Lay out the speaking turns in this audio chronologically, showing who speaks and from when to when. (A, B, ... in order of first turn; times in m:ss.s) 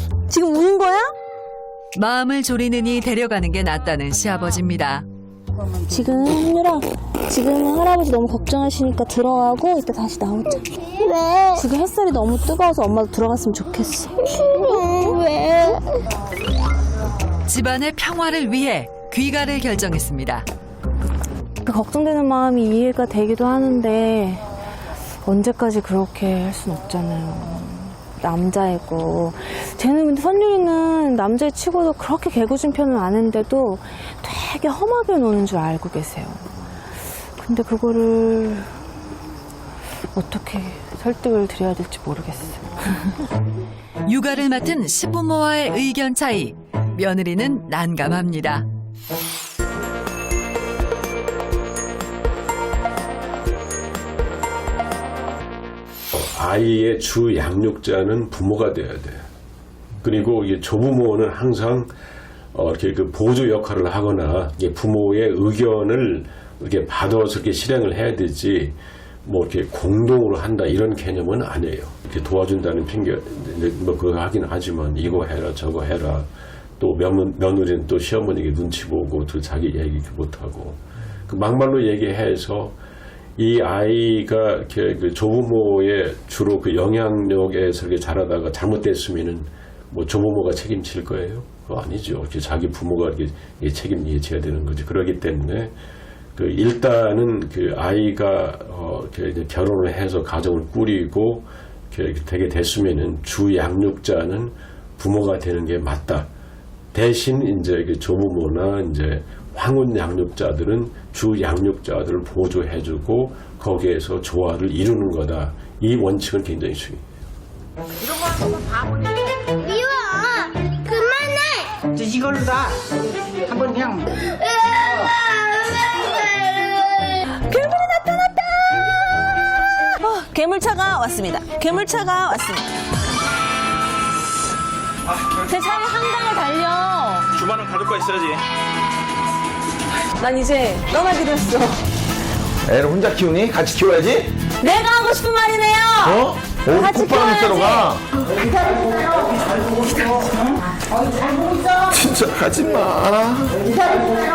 0:00.3-0:01.1 A
0:01.9-0:05.0 B
0:05.9-0:10.6 A
0:11.0-0:11.6 C
0:11.5-0:15.3 A
0:14.4-0:15.7 C
0:17.4-0:20.5 B
0:21.6-0:24.4 A
0:25.2-0:36.5 A
0:37.4-0:38.7 A
0:40.1-0:43.1 A
0:44.0-0:48.6 B
0:56.1-0:59.3 D
1:00.0-1:01.9 D
1:02.5-1:16.3 D
1:16.8-1:22.8 D
1:23.4-1:35.7 D
1:36.4-1:46.3 D
1:46.9-1:57.0 D
1:58.0-1:59.2 E
1:59.7-2:01.7 C
2:01.9-2:02.8 E
2:03.4-2:04.1 E
2:07.5-2:08.5 A
2:10.0-2:12.6 A
2:15.5-2:17.2 A
2:20.2-2:21.8 A
2:22.7-2:24.3 F
2:24.6-2:26.0 A
2:25.0-2:25.5 C
2:26.0-2:28.0 F
2:26.7-2:27.9 A
2:28.7-2:31.9 E
2:31.9-2:33.6 F